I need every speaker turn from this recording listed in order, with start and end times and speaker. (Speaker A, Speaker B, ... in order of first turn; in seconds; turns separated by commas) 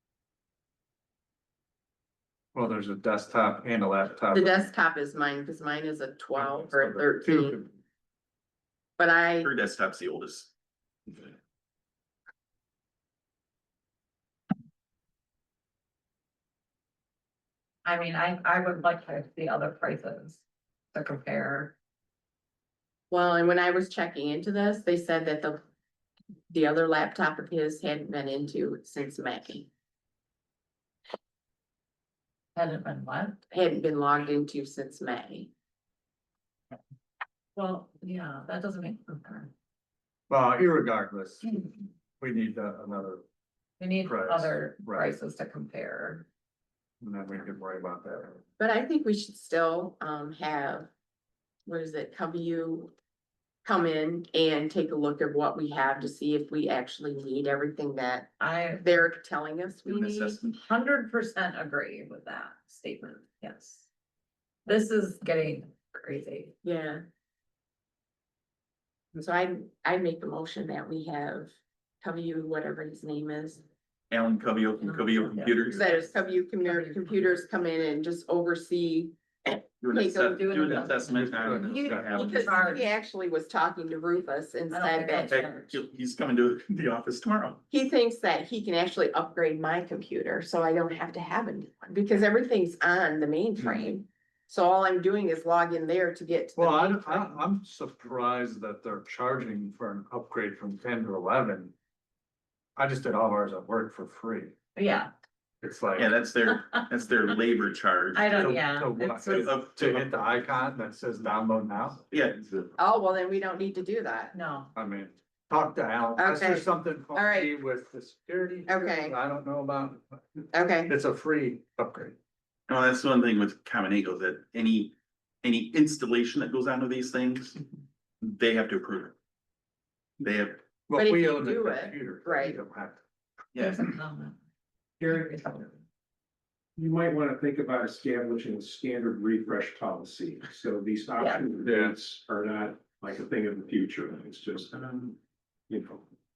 Speaker A: 2.5-4.6, Speaker B: 4.3-7.6, Speaker A: 6.3-7.7, Speaker B: 9.0-9.5, Speaker C: 9.4-10.5, Speaker D: 17.8-20.4, Speaker D: 20.9-21.8, Speaker B: 23.1-25.6, Speaker B: 26.5-29.7, Speaker D: 32.5-33.4, Speaker B: 33.5-35.5, Speaker D: 37.5-39.5, Speaker A: 40.3-43.2, Speaker D: 43.8-46.3, Speaker A: 44.0-45.1, Speaker A: 47.0-48.4, Speaker B: 48.6-50.9, Speaker B: 51.6-52.9, Speaker B: 53.6-60.4, Speaker D: 58.4-59.0, Speaker C: 59.9-60.6, Speaker D: 60.5-63.9, Speaker D: 64.6-66.5, Speaker B: 66.6-67.0, Speaker B: 69.1-73.6, Speaker C: 74.1-76.0, Speaker D: 74.8-77.4, Speaker B: 75.7-80.4, Speaker C: 79.8-82.6, Speaker D: 80.1-82.9, Speaker A: 81.1-82.3, Speaker B: 82.1-85.4, Speaker D: 84.7-85.8, Speaker C: 85.3-87.6, Speaker B: 87.7-97.3, Speaker A: 96.5-101.7, Speaker A: 102.8-104.5, Speaker D: 104.7-105.1, Speaker A: 105.6-106.1, Speaker C: 106.0-108.6, Speaker D: 106.4-106.9, Speaker D: 108.1-109.5, Speaker A: 108.3-112.0, Speaker C: 109.2-110.2, Speaker C: 112.1-112.8, Speaker B: 112.8-114.3, Speaker D: 114.3-114.7, Speaker A: 114.7-122.1, Speaker B: 116.2-117.5, Speaker B: 118.7-119.1, Speaker B: 120.5-120.9, Speaker C: 122.7-127.6, Speaker C: 128.2-129.1, Speaker C: 130.2-130.6, Speaker A: 130.9-133.0, Speaker B: 130.9-132.6, Speaker C: 133.5-133.9, Speaker D: 133.6-134.4, Speaker D: 135.0-135.8, Speaker E: 136.8-145.1, Speaker A: 141.6-142.0, Speaker E: 145.7-146.0